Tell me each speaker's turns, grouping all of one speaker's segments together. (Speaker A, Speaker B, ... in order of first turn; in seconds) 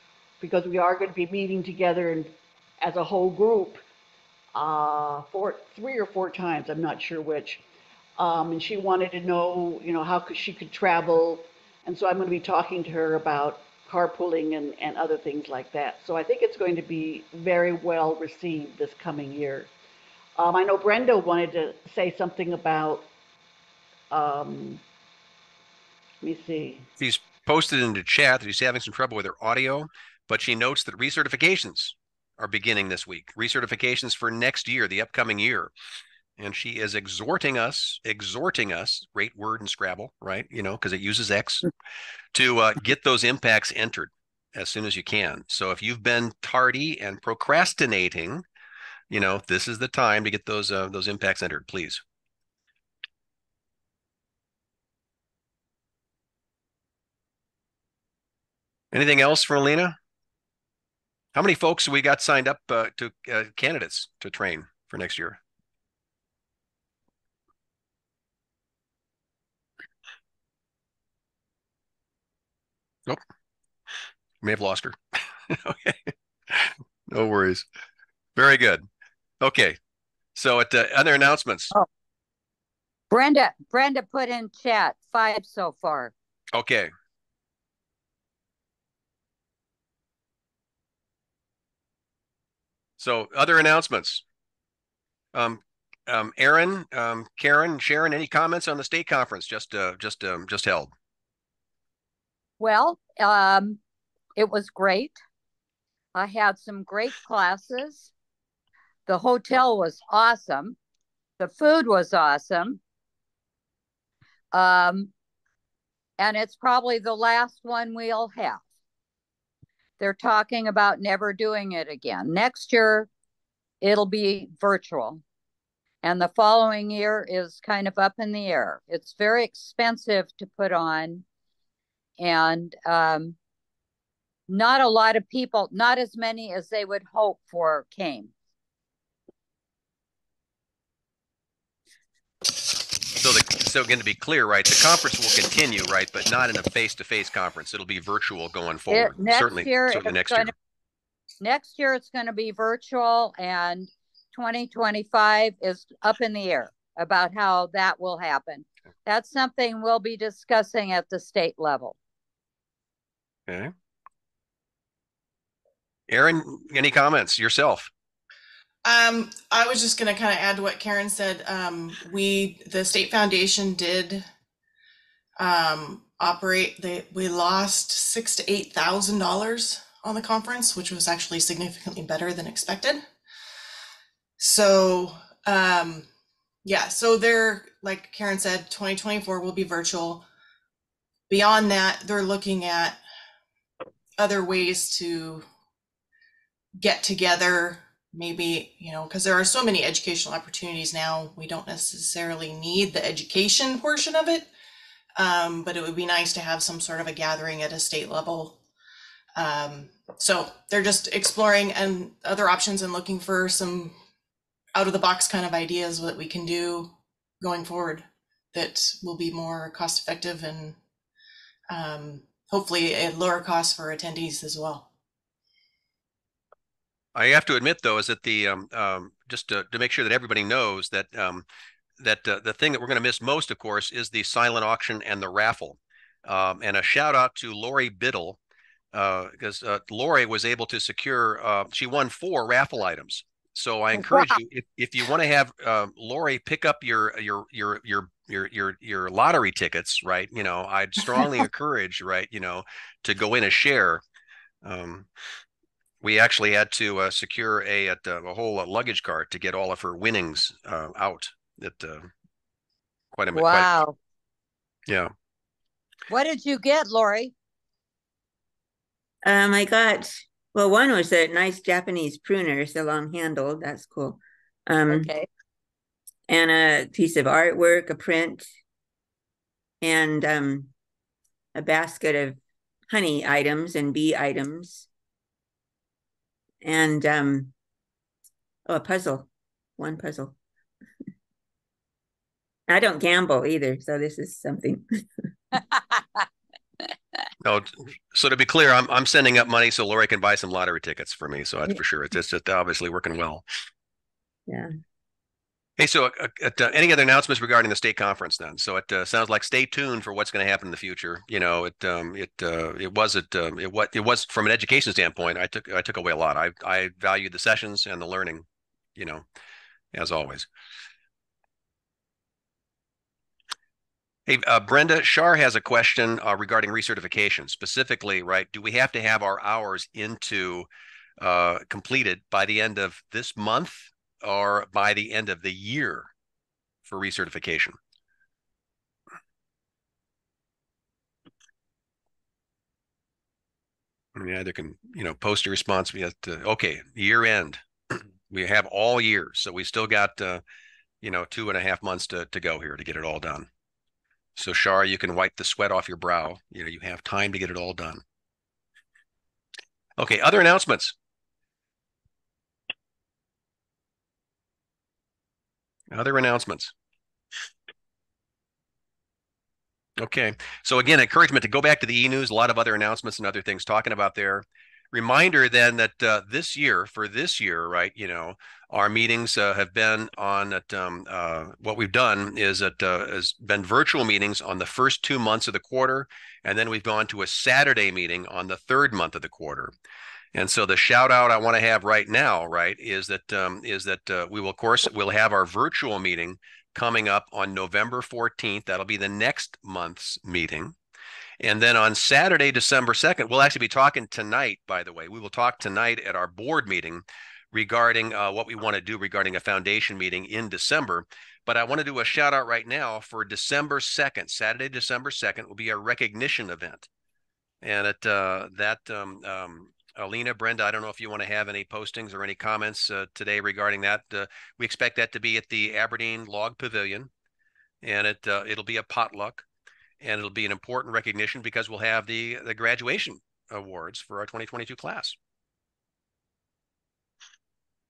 Speaker A: 0.4-3.8, 4.5-7.6, 8.2-19.7, 20.4-23.1, 24.1-24.8, 26.2-26.9
Speaker B: 27.0-35.7, 36.4-41.7, 42.3-48.4, 49.1-52.0, 58.9-60.0, 61.3-65.4, 74.4-75.0, 75.5-77.7, 78.3-78.8, 79.4-79.8, 80.3-81.7, 86.5-86.9, 93.0-94.2, 95.3-100.9, 143.2-150.5, 166.1-167.9, 227.1-231.4, 232.0-238.4, 238.9-254.0, 254.6-255.1, 256.0-262.1, 263.1-263.8, 297.4-303.4, 305.8-318.4, 318.9-319.2, 319.9-320.5, 324.3-330.7, 331.2-336.1, 336.9-337.8, 344.1-350.4, 351.0-353.5, 354.4-358.0, 360.0-360.9, 365.9-366.7, 370.0-389.7, 390.3-400.8, 401.4-416.9, 417.6-427.1, 427.8-429.4, 430.0-435.2
Speaker C: 83.1-86.1, 102.6-103.8, 104.3-105.2, 106.1-108.1, 109.1-110.8, 111.4-112.8, 114.5-115.1, 116.2-118.6, 120.0-123.1, 123.8-125.2, 126.0-131.2, 132.2-133.3, 134.5-138.3, 148.9-150.5, 151.4-161.9, 263.3-263.9, 266.1-267.3, 274.9-275.3
Speaker D: 168.8-174.2, 175.4-183.0, 184.4-186.1, 186.6-190.2, 191.3-193.0, 194.2-195.4, 196.8-204.5, 205.2-208.6, 209.3-213.9, 214.7-220.8, 221.7-224.8
Speaker E: 269.2-275.1, 276.3-278.5, 279.8-280.7, 281.5-284.9, 286.6-287.5, 288.6-290.3, 292.7-294.8, 304.5-304.7